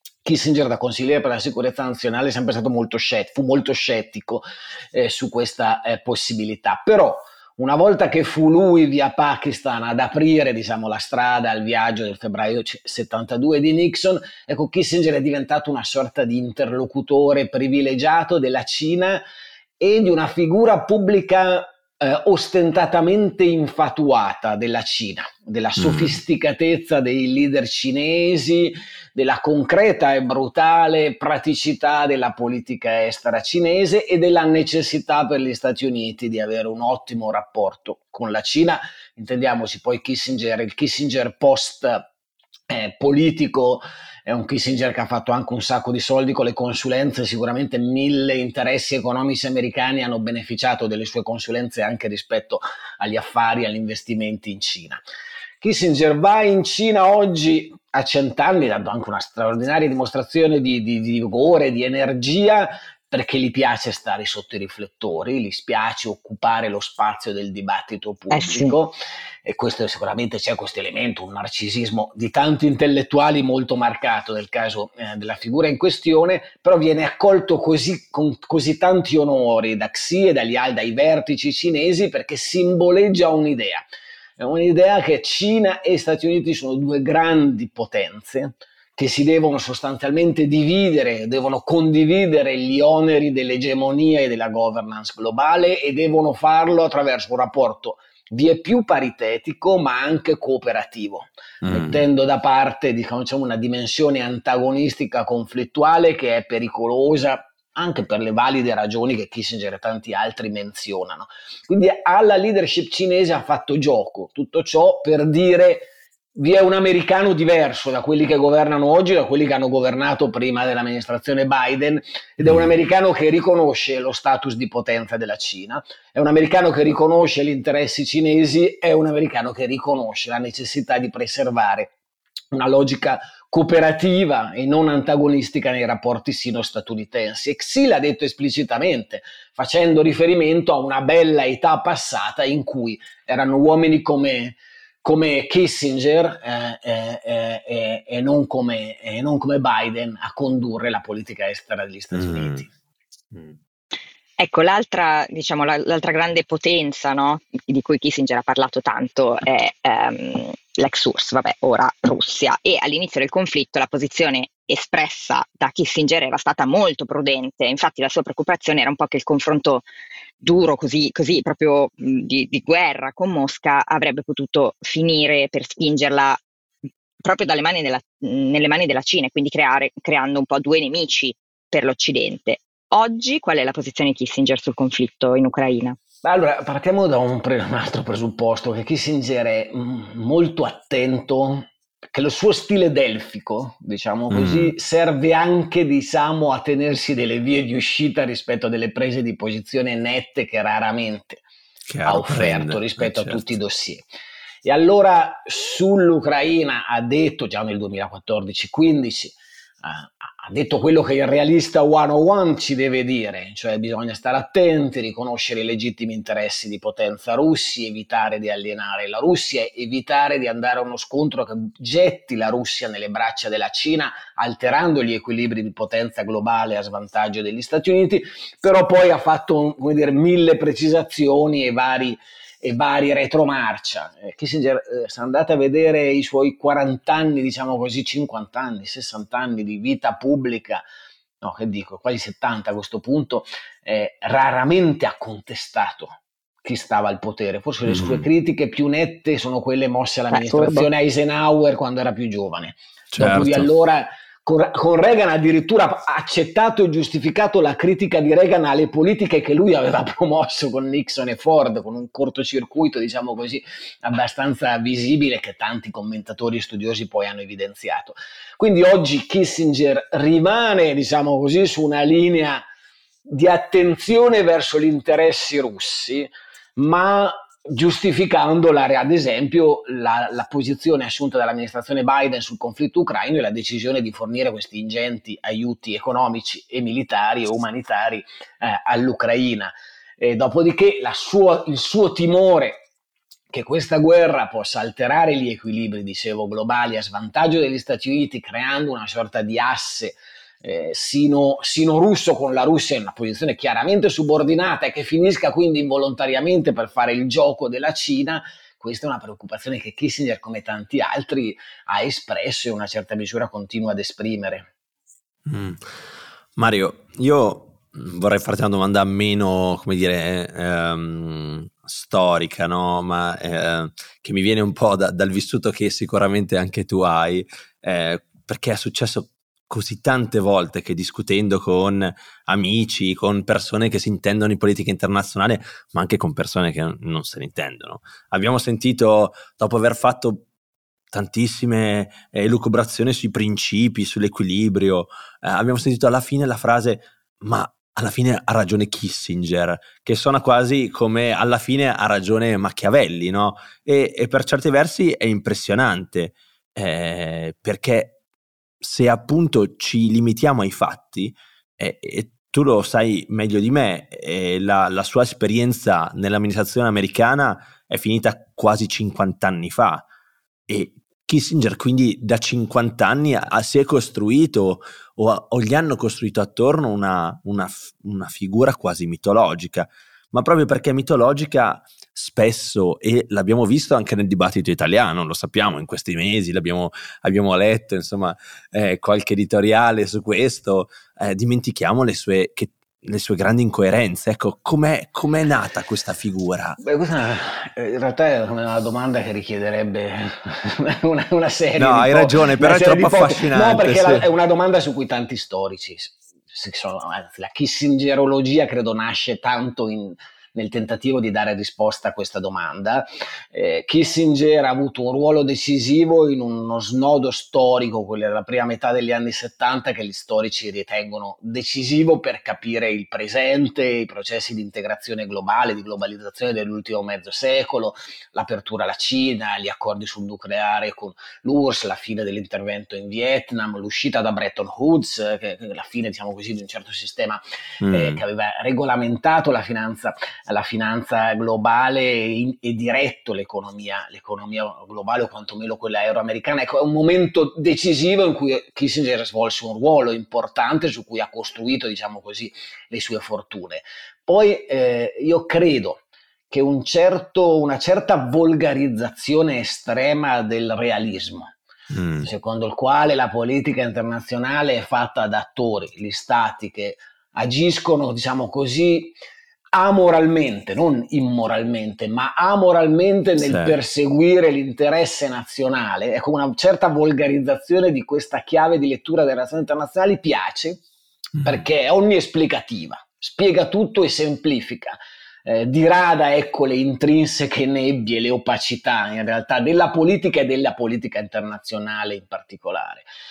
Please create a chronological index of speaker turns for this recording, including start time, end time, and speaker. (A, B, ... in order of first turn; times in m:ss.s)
0:00.2-0:19.2 A
0:19.8-0:42.1 A
0:25.8-0:26.2 B
0:42.7-0:55.0 A
0:55.6-1:23.9 A
1:08.3-1:08.8 C
1:24.4-2:11.9 A
1:41.6-1:42.0 B
2:02.4-2:02.7 B
2:12.5-2:32.7 A
2:32.1-2:32.6 B
2:34.4-2:49.8 C
2:50.4-2:56.4 C
2:57.2-3:06.0 C
3:06.2-3:21.4 A
3:14.3-3:14.7 B
3:21.9-3:23.5 B
3:22.0-3:24.0 A
3:24.6-4:00.8 A
4:01.4-4:32.6 A
4:07.8-4:08.3 B
4:10.3-4:10.9 C
4:13.1-4:13.7 B
4:33.3-4:52.8 A
4:53.5-5:14.7 A
5:15.5-5:16.0 B
5:16.6-5:40.5 B
5:41.1-5:58.2 B
5:58.8-6:10.0 B
6:10.7-6:36.8 B
6:36.8-7:41.5 A
6:41.8-6:44.3 B
7:17.8-7:18.2 B
7:41.9-7:42.3 B
7:42.2-7:49.2 A
7:49.7-8:00.8 A
7:53.4-7:53.8 B
8:01.4-8:13.0 A